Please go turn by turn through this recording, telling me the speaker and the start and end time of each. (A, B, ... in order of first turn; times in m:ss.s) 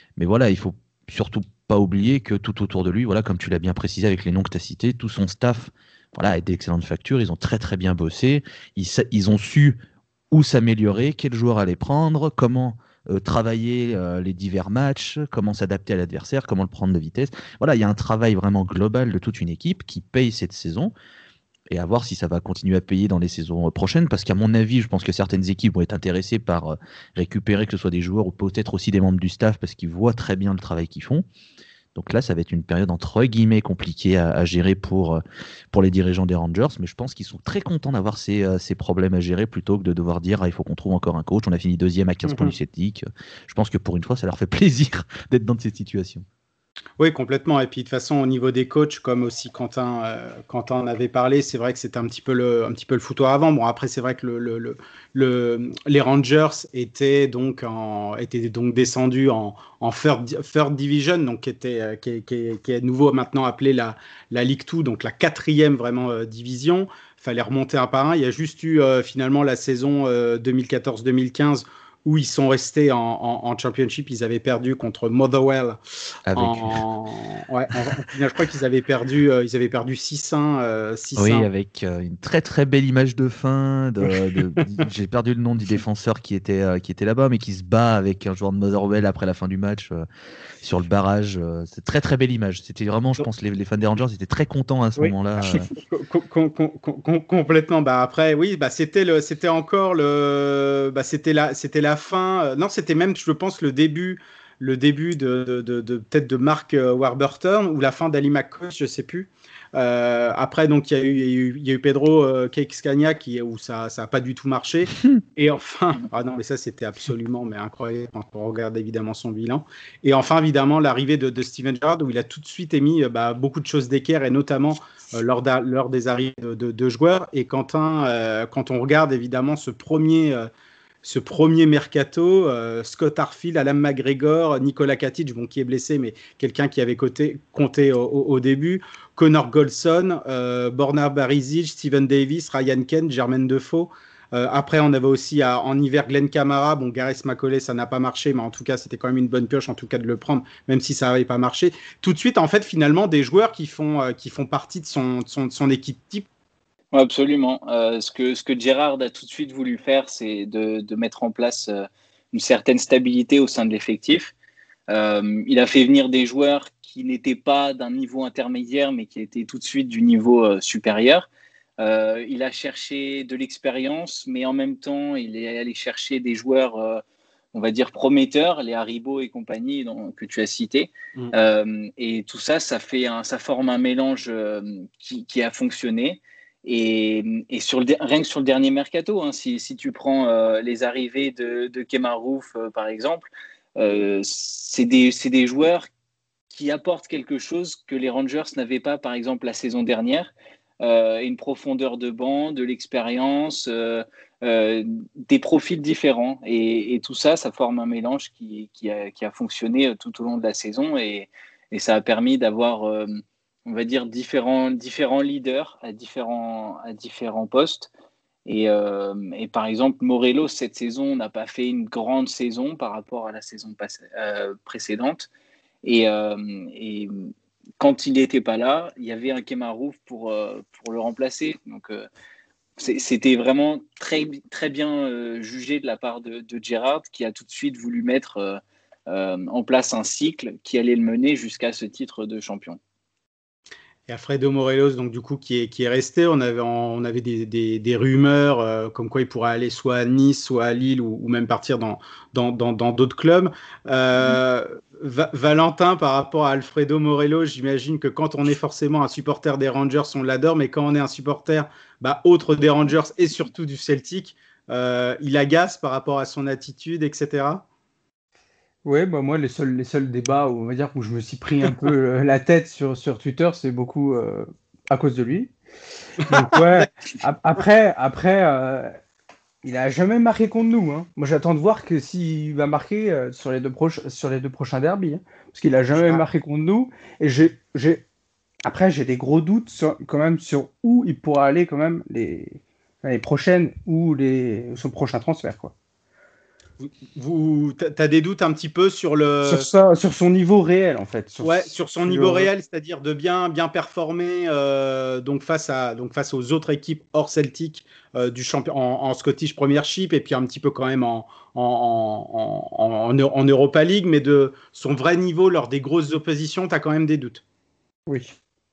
0:00.2-0:09.8 A
0:10.3-0:20.9 A
0:21.7-0:31.2 A
0:31.9-0:46.2 A
0:42.2-0:42.5 B
0:47.0-1:15.8 B
1:16.3-1:16.8 A
1:16.3-1:21.5 B
1:21.2-1:30.0 A
1:30.6-1:35.7 A
1:35.0-2:10.5 B
2:11.0-2:36.3 B
2:36.9-2:44.3 C
2:44.9-2:51.3 C
2:51.8-2:57.0 C
2:57.5-3:15.9 C
3:16.5-3:20.3 C
3:20.8-3:37.9 C
3:38.4-3:45.3 C
3:45.8-3:47.3 C
3:47.8-3:52.1 C
3:52.8-4:02.8 C
4:04.1-4:27.6 B
4:28.8-4:35.5 D
4:36.3-4:36.9 B
4:36.3-4:38.9 D
4:39.6-4:48.0 D
4:45.9-4:46.2 B
4:48.6-4:55.7 D
4:56.8-4:59.7 B
4:59.4-5:02.5 D
5:01.4-5:17.4 B
5:18.1-5:18.3 D